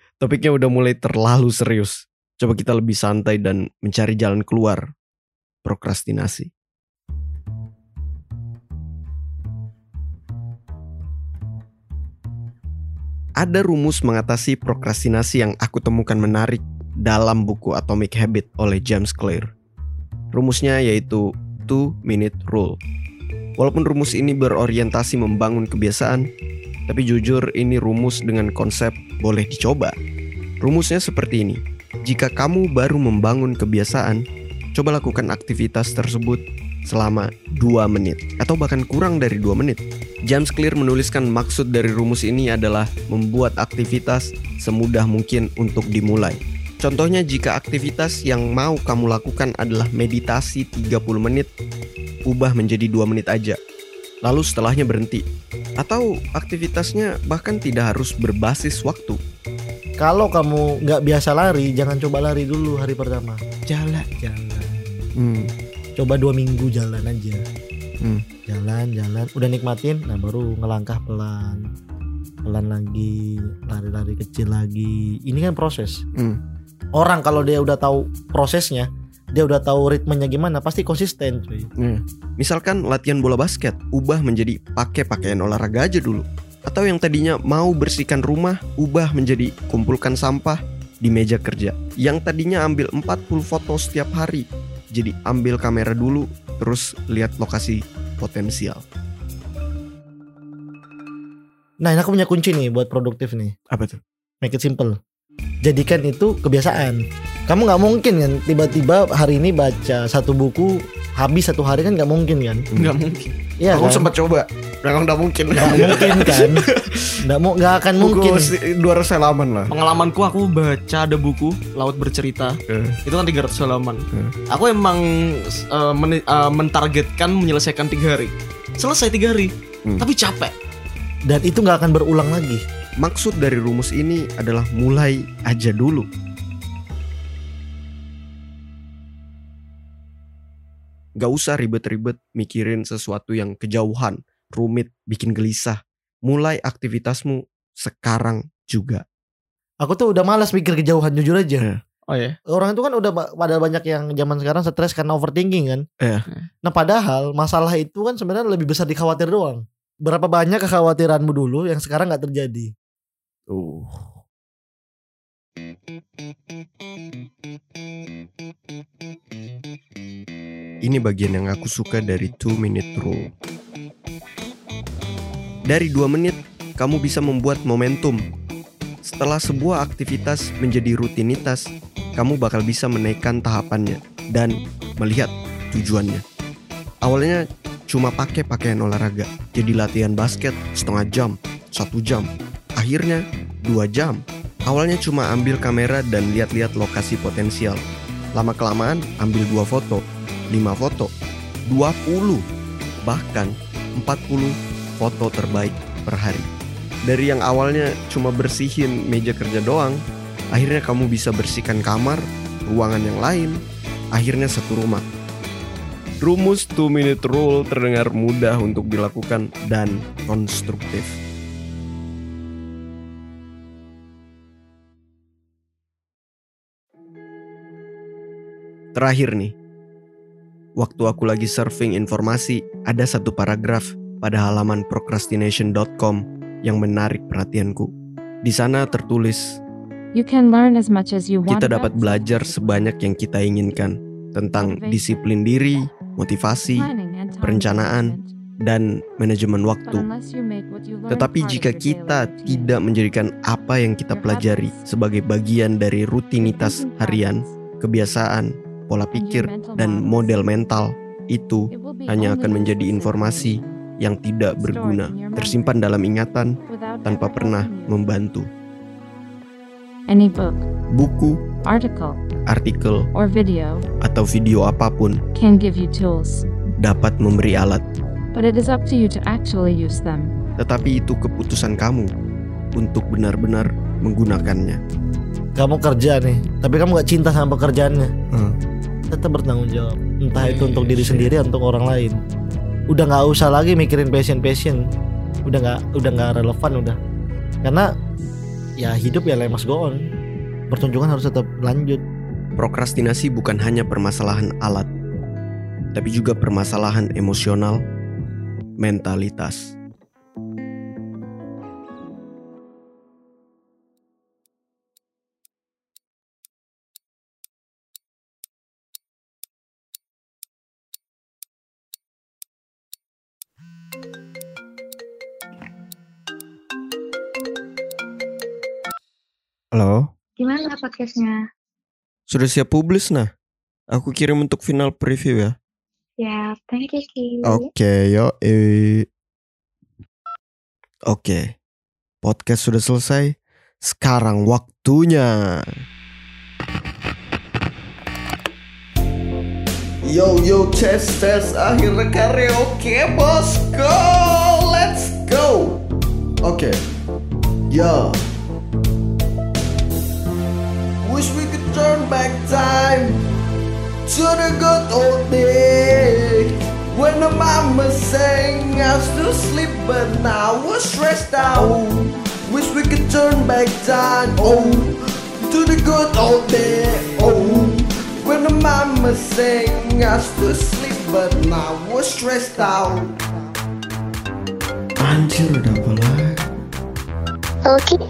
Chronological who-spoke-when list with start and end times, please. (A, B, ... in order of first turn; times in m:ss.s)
0:00.2-0:04.9 A
0:05.6-0:06.5 A
0:13.4-0:19.5 A
0:20.3-0:22.8 A
0:23.6-0:26.3 A
0:26.9-0:30.0 A
0:30.6-0:34.2 A
0:34.8-0:51.5 A
0:52.3-0:53.6 A
0:54.2-0:55.2 A
0:55.8-0:59.2 A
1:00.0-1:03.4 B
1:03.7-1:04.1 A
1:04.1-1:05.1 B
1:05.2-1:05.5 A
1:06.0-1:07.4 B
1:08.5-1:11.7 B
1:12.4-1:16.0 B
1:17.0-1:21.7 B
1:21.8-1:38.8 A
1:41.8-1:43.6 B
1:43.7-1:44.0 A
1:44.4-1:45.0 B
1:45.6-1:52.7 B
1:52.8-1:53.3 C
1:53.6-1:54.1 B
1:53.7-1:57.2 A
1:55.6-1:56.6 B
1:55.7-1:56.0 C
1:57.2-1:58.5 B
1:58.0-1:59.7 A
1:59.7-2:10.5 C
2:02.7-2:03.0 A
2:11.3-2:12.6 B
2:13.0-2:16.1 A
2:21.2-2:29.0 A
2:29.8-2:31.6 B
2:32.1-2:32.4 C
2:32.5-2:35.8 B
2:36.0-2:36.3 A
2:36.6-2:42.7 B
2:43.5-2:44.2 A
2:50.8-2:53.3 A
2:55.7-2:58.2 A
2:59.0-3:06.2 A
3:07.0-3:17.8 A
3:18.4-3:21.1 A
3:21.7-3:22.4 A
3:23.0-3:26.5 A
3:27.1-3:30.0 A
3:30.5-3:33.6 A
3:34.1-3:35.0 A
3:36.2-3:41.2 A
3:49.0-3:49.5 A
3:50.8-3:57.9 A
3:58.4-3:59.6 A
4:00.1-4:03.0 D
4:01.5-4:06.9 A
4:04.6-4:05.1 D
4:06.7-4:08.3 D
4:07.4-4:10.1 A
4:09.8-4:12.8 D
4:11.1-4:28.5 A
4:14.1-4:14.8 D
4:16.4-4:17.6 D
4:19.1-4:20.4 D
4:21.7-4:23.8 D
4:24.6-4:25.8 D
4:26.6-4:28.0 D
4:30.1-4:30.7 D
4:30.9-4:31.4 A
4:31.6-4:32.2 D
4:32.5-4:33.1 A
4:33.1-4:33.8 D
4:34.0-4:35.2 A
4:35.4-4:36.4 D
4:36.8-4:37.8 A
4:38.3-4:40.4 D
4:40.6-4:42.1 A
4:42.8-4:44.8 A
4:45.6-4:48.1 B
4:48.3-4:48.6 A
4:49.1-4:52.2 B
4:50.4-4:51.3 C
4:52.9-4:54.9 B
4:55.4-4:57.0 B
4:57.6-4:57.9 B
4:58.8-5:00.0 B
5:00.7-5:02.0 B
5:02.6-5:04.9 A
5:05.9-5:07.8 A
5:08.8-5:09.7 A
5:29.7-5:30.1 A
5:30.4-5:31.4 E
5:32.3-5:33.3 A
5:33.9-5:35.6 A
5:36.2-5:37.7 E
5:37.4-5:39.1 A
5:41.1-5:41.5 A
5:42.2-5:45.8 A
5:50.0-5:55.8 A
5:56.4-5:56.8 A
5:57.7-5:58.2 A
6:01.0-6:03.2 A
6:04.1-6:23.2 A
6:25.0-6:26.5 A
6:27.6-6:28.0 E